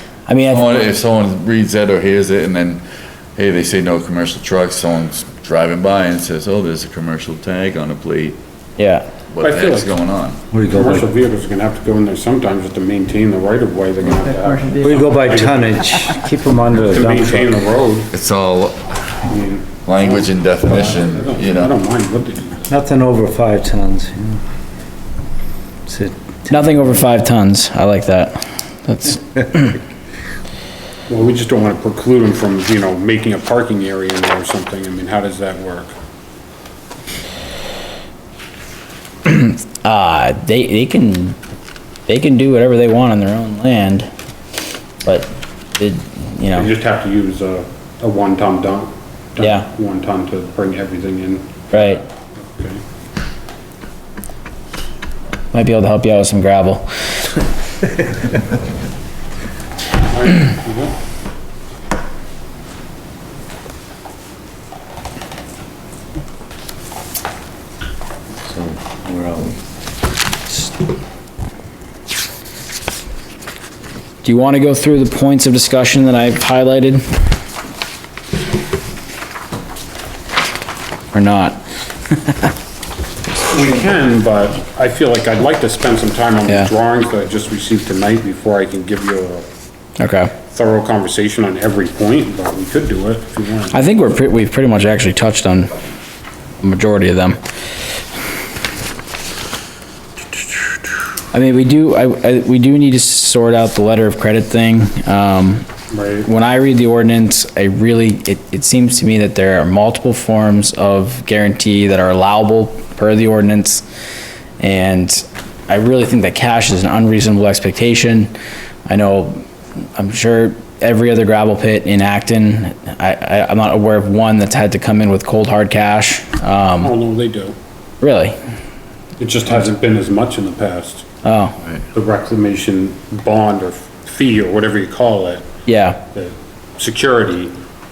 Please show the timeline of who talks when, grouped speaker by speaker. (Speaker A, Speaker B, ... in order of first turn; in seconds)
Speaker A: 0.3-0.7, 8.8-9.1, 26.5-29.8, 39.3-41.4, 42.1-44.1, 45.0-46.7, 49.4-49.7, 51.7-52.0, 55.5-56.9, 74.2-77.0, 81.1-82.5, 90.0-90.3, 93.7-95.7, 96.6-97.4, 101.3-105.7, 106.2-113.8, 114.6-118.3, 118.9-119.4, 120.0-127.0, 128.0-128.4, 131.2-131.6, 135.7-136.0
Speaker B: 0.5-2.8, 3.4-8.4, 9.3-10.4, 18.1-19.1, 19.9-21.7
Speaker C: 9.4-9.9, 10.7-16.2, 16.8-18.1, 19.2-22.7, 31.1-35.9, 46.5-52.8, 60.1-61.0, 83.5-89.5, 90.5-93.8, 105.9-106.3, 126.8-127.5, 129.2-131.1, 131.9-135.4, 136.1-137.5
Speaker D: 10.5-11.1, 14.8-17.5, 22.7-24.4, 25.9-26.9, 68.5-69.5